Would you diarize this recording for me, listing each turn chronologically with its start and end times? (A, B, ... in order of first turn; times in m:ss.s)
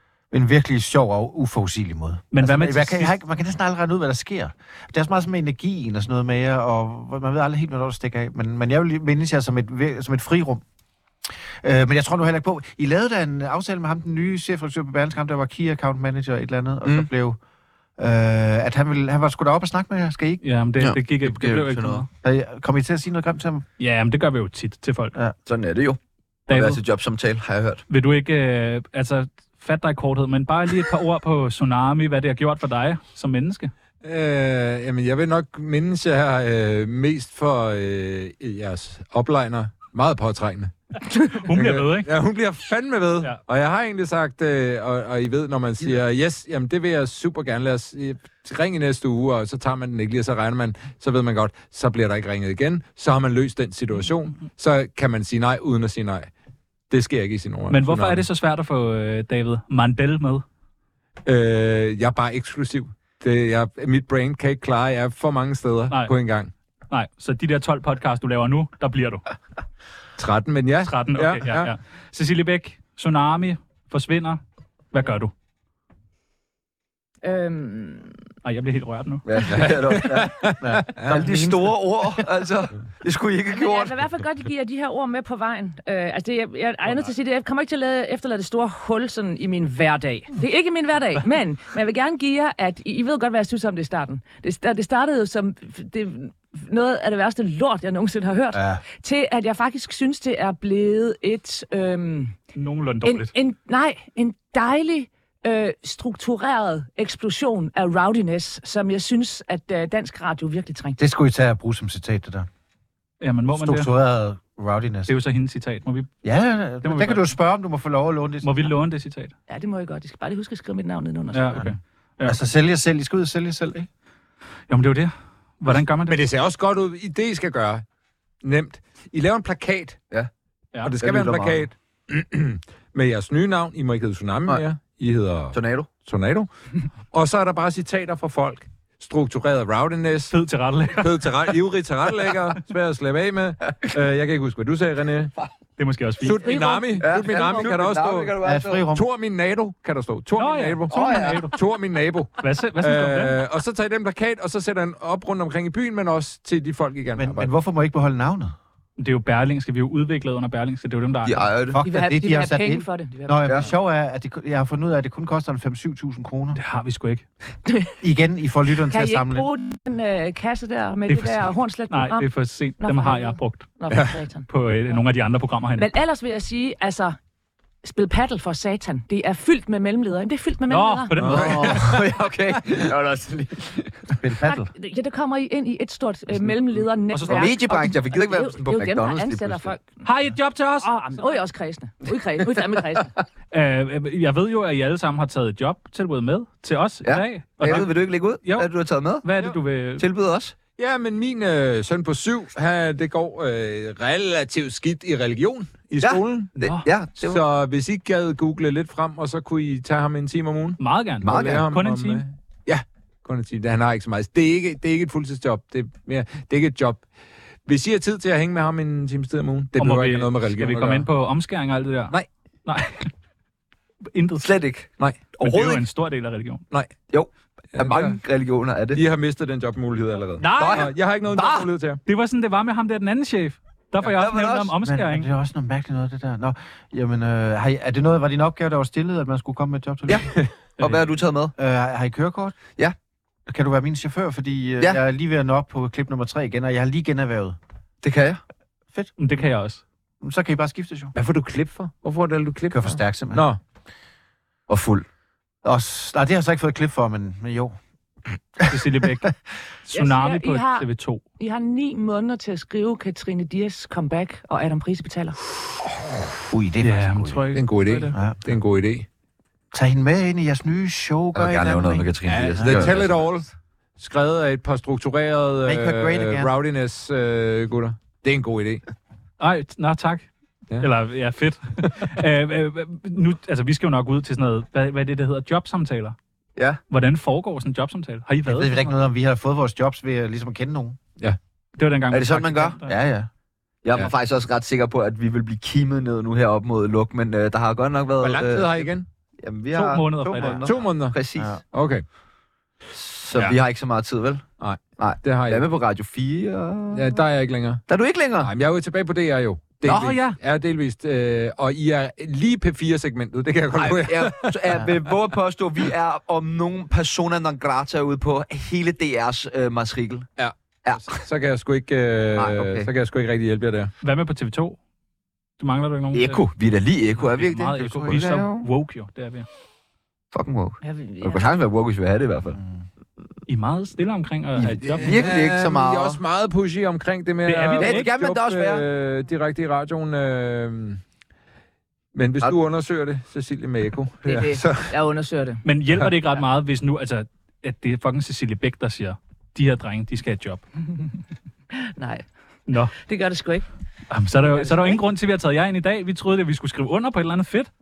0:00.3-0:10.6 A
0:02.3-0:03.1 B
0:11.6-0:17.4 A
0:18.0-0:20.4 A
0:20.4-0:22.1 B
0:20.8-0:22.0 C
0:22.2-0:23.7 A
0:23.8-0:25.1 B
0:25.5-0:27.8 C
0:26.5-0:26.8 B
0:27.9-0:33.7 B
0:34.0-0:40.7 D
0:41.1-0:42.1 B
0:41.5-0:56.3 D
0:56.9-0:58.3 D
0:57.7-1:00.4 B
1:01.2-1:06.5 D
1:06.9-1:09.2 B
1:10.2-1:11.7 D
1:10.8-1:14.4 B
1:14.9-1:15.3 B
1:17.2-1:18.1 E
1:18.4-1:19.2 B
1:19.3-1:20.4 C
1:19.5-1:21.1 D
1:20.6-1:22.2 A
1:21.0-1:23.9 C
1:23.5-1:42.4 E
1:38.5-1:38.8 A
1:42.6-1:43.3 B
1:43.0-1:51.0 E
1:51.0-1:52.5 A
1:53.2-1:53.9 B
1:53.5-1:55.1 A
1:55.1-1:56.1 B
1:56.2-1:58.7 A
1:56.8-1:57.4 B
1:58.4-1:59.3 B
1:59.5-2:01.6 E
2:01.3-2:02.4 B
2:02.2-2:03.9 A
2:04.7-2:06.2 B
2:06.0-2:07.8 D
2:08.4-2:10.0 D
2:10.8-2:16.5 D
2:11.0-2:11.7 C
2:15.5-2:15.9 C
2:17.1-2:20.4 D
2:20.3-2:21.3 B
2:20.9-2:25.3 D
2:25.8-2:26.6 B
2:26.2-2:28.4 D
2:26.3-2:27.7 E
2:27.0-2:28.9 C
2:28.4-2:29.1 A
2:28.9-2:37.5 D
2:30.4-2:31.6 B
2:30.9-2:31.6 C
2:32.4-2:33.4 B
2:37.2-2:38.5 A
2:39.0-2:41.5 B
2:41.2-2:41.8 C
2:41.7-2:46.6 A
2:41.8-2:43.4 E
2:46.6-2:47.2 B
2:47.6-2:48.0 E
2:48.0-2:49.5 A
2:48.9-2:54.5 E
2:51.1-2:53.7 B
2:54.5-2:55.9 B
2:55.8-2:57.2 E
2:57.8-3:01.2 E
3:00.7-3:02.0 B
3:01.1-3:02.0 D
3:01.3-3:04.2 C
3:04.2-3:04.7 A
3:04.4-3:10.0 E
3:07.1-3:07.6 B
3:07.3-3:09.7 C
3:10.0-3:10.9 B
3:10.8-3:13.1 E
3:13.5-3:18.7 B
3:17.0-3:19.3 C
3:19.2-3:20.1 B
3:20.0-3:20.6 C
3:20.8-3:26.6 D
3:26.0-3:27.4 C
3:26.6-3:26.9 B
3:27.2-3:37.1 D
3:30.8-3:32.2 B
3:31.2-3:31.7 C
3:37.7-3:41.1 D
3:39.8-3:43.1 B
3:44.1-3:44.5 B
3:44.4-3:44.9 C
3:45.0-3:45.8 D
3:45.4-3:46.6 B
3:47.1-3:49.0 C
3:47.7-3:48.2 D
3:48.9-3:52.0 D
3:50.4-3:50.9 B
3:50.6-3:51.7 C
3:52.1-3:55.3 B
3:54.2-3:54.8 C
3:54.8-4:00.3 A
4:00.4-4:00.9 D
4:00.8-4:01.5 C
4:01.6-4:02.6 A
4:03.5-4:07.6 A
4:08.0-4:08.4 C
4:09.2-4:09.8 B
4:10.2-4:11.1 A
4:11.1-4:13.6 D
4:12.7-4:13.5 A
4:14.7-4:15.1 C
4:15.6-4:17.8 A
4:18.6-4:19.3 A
4:18.7-4:19.3 B
4:19.9-4:21.2 B
4:19.9-4:25.4 E
4:26.5-4:27.4 A
4:26.8-4:28.2 B
4:27.5-4:29.1 D
4:28.1-4:28.4 A
4:29.7-4:33.0 A
4:31.4-4:33.2 C
4:32.2-4:38.8 D
4:35.6-4:36.5 A
4:39.4-4:40.3 B
4:40.8-4:46.2 B
4:46.6-4:46.8 C
4:46.9-4:48.9 B
4:48.5-4:51.0 A
4:51.8-4:53.0 B
4:52.1-4:52.8 C
4:52.9-4:53.3 A
4:53.8-5:01.6 C
4:58.2-4:59.1 D
4:59.7-5:00.7 B
5:00.6-5:01.2 D
5:01.4-5:01.6 A
5:01.7-5:02.0 D
5:03.0-5:07.2 C
5:04.6-5:05.6 D
5:06.9-5:07.8 D
5:07.9-5:08.5 C
5:08.4-5:15.0 D
5:09.8-5:10.2 C
5:09.9-5:10.4 B
5:13.8-5:20.3 C
5:20.4-5:23.9 D
5:20.8-5:21.2 C
5:22.4-5:22.9 C
5:24.0-5:24.8 B
5:25.6-5:26.5 B
5:26.1-5:28.7 C
5:27.2-5:29.5 B
5:27.8-5:28.3 A
5:30.3-5:32.6 C
5:30.8-5:31.6 E
5:32.6-5:32.8 A
5:33.5-5:35.3 B
5:34.6-5:41.0 D
5:34.7-5:36.2 C
5:37.4-5:38.1 B
5:37.8-5:38.8 C
5:42.1-5:44.9 D
5:44.2-5:45.6 E
5:45.6-5:50.6 B
5:51.7-5:52.2 E
5:52.7-5:52.9 B
5:52.8-5:53.6 E
5:54.1-5:57.7 B
5:54.5-5:55.0 E